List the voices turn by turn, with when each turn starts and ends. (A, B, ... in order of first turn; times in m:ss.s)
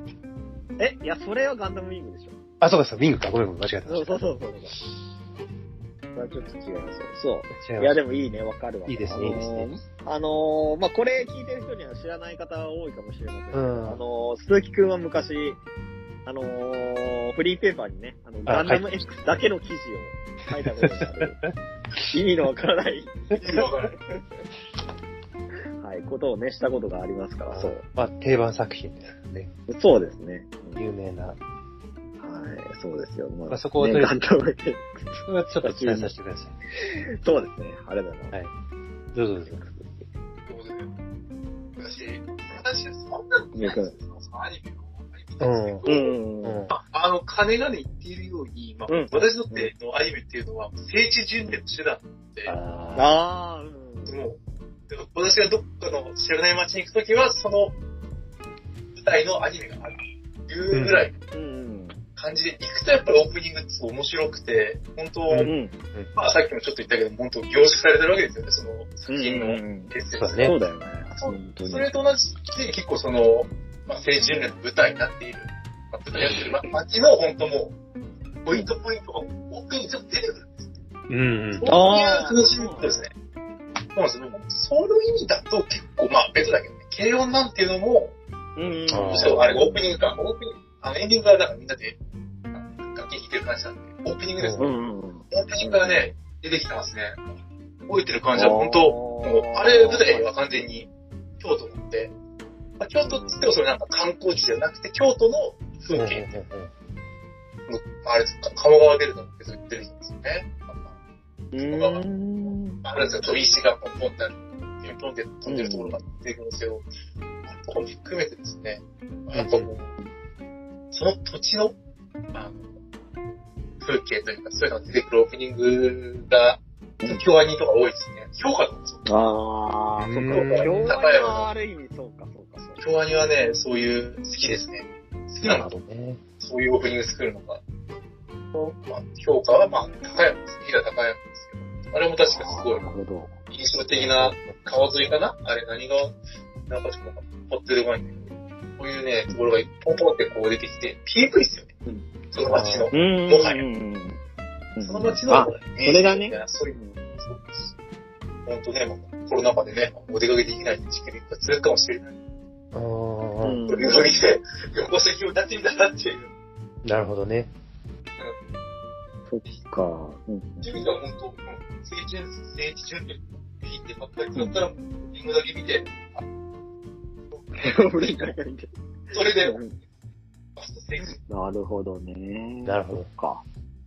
0:00.8-0:02.4 A
0:02.6-0:04.2 B
0:03.9-0:04.8 A
0:06.2-0:15.6 A
0:07.6-0:08.0 B
0:08.9-0:09.7 B
0:13.5-0:14.0 B
0:16.2-0:21.4 A
0:18.5-0:19.0 B
0:20.8-0:21.5 B
0:22.1-0:23.7 A
0:23.4-0:24.0 C
0:25.8-0:27.8 A
0:27.5-0:29.5 B
0:29.7-0:30.8 A
0:30.8-0:31.4 B
0:32.2-0:36.1 A
0:33.5-0:34.2 B
0:35.2-0:36.5 B
0:36.8-0:38.3 A
0:39.1-0:39.6 B
0:39.5-0:40.0 A
0:40.5-0:40.9 C
0:41.8-0:46.2 C
0:43.6-0:44.0 A
0:45.4-0:45.9 B
0:45.9-0:46.6 A
0:46.4-0:46.7 B
0:46.7-0:52.5 C
0:48.9-0:49.7 A
0:52.5-0:53.1 B
0:53.0-0:54.2 A
0:54.1-0:54.4 C
0:54.9-0:57.8 C
0:59.0-1:01.1 C
1:00.7-1:01.1 B
1:01.3-1:02.0 A
1:02.2-1:05.5 C
1:05.3-1:06.1 B
1:05.4-1:05.7 A
1:06.2-1:10.5 C
1:09.1-1:11.9 A
1:10.1-1:10.6 B
1:11.2-1:17.8 C
1:16.2-1:16.7 A
1:18.4-1:20.7 C
1:21.1-1:21.6 B
1:21.5-1:23.1 C
1:21.6-1:23.1 A
1:24.0-1:28.1 C
1:28.6-1:29.9 A
1:28.7-1:32.0 C
1:28.9-1:29.5 B
1:32.5-1:34.7 C
1:34.4-1:34.7 B
1:34.6-1:36.1 A
1:35.3-1:37.2 C
1:37.9-1:42.1 C
1:38.4-1:40.3 A
1:42.8-1:46.2 C
1:43.0-1:43.5 A
1:45.9-1:46.7 B
1:47.7-1:50.9 C
1:51.5-1:53.2 A
1:51.6-1:56.9 C
1:55.5-1:56.0 A
1:57.5-1:59.9 C
1:59.4-1:59.7 B
2:00.9-2:01.8 C
2:02.3-2:02.6 C
2:03.8-2:09.0 C
2:09.1-2:12.8 A
2:10.0-2:10.9 B
2:10.3-2:11.5 C
2:12.8-2:15.7 C
2:15.4-2:16.2 B
2:16.4-2:17.6 C
2:18.5-2:22.8 C
2:22.2-2:23.3 A
2:23.5-2:26.1 C
2:23.9-2:25.1 B
2:26.7-2:31.7 C
2:32.3-2:33.6 C
2:32.5-2:32.9 B
2:32.9-2:34.2 A
2:34.8-2:37.0 A
2:34.8-2:37.7 C
2:38.5-2:42.1 C
2:42.7-2:43.6 B
2:43.4-2:44.3 A
2:43.7-2:46.3 C
2:46.8-2:47.5 B
2:49.3-2:50.8 A
2:50.6-2:56.2 C
2:57.4-2:58.3 C
2:57.6-2:58.7 A
2:59.1-2:59.6 C
2:59.2-2:59.8 A
3:00.6-3:01.2 C
3:01.0-3:03.4 A
3:02.6-3:03.1 B